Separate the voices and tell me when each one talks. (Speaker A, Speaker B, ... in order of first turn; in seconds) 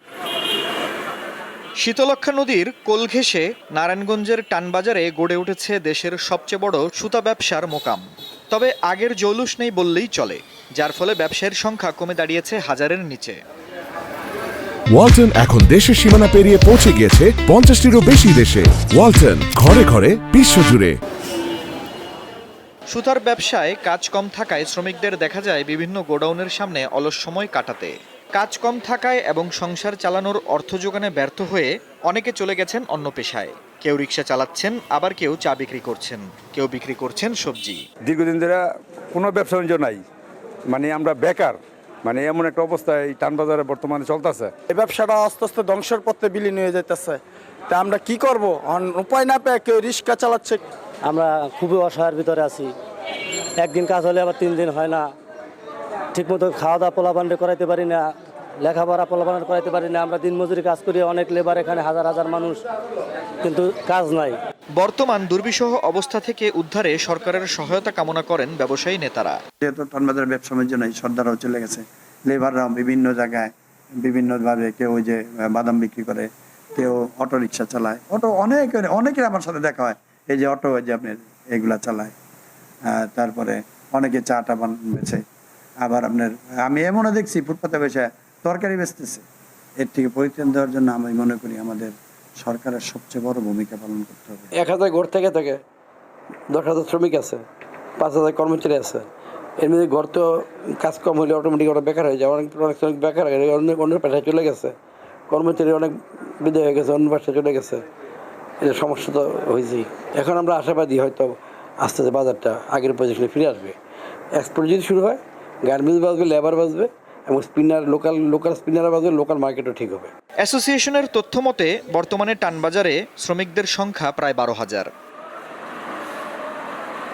Speaker A: 1.8-13.4, 22.9-37.8, 64.8-69.4, 120.4-124.9
Speaker B: 14.9-21.0
Speaker C: 38.1-38.6, 39.1-40.0, 40.7-44.5
Speaker D: 44.7-50.6
Speaker E: 51.1-52.7, 53.6-55.1, 56.1-58.0, 58.6-62.6, 63.4-64.4
Speaker F: 69.6-82.1, 82.9-85.2, 85.8-89.2, 89.8-94.5
Speaker G: 94.5-95.6, 96.5-97.5, 98.0-99.1, 99.6-104.8, 105.3-107.8, 108.6-113.8, 114.3-120.1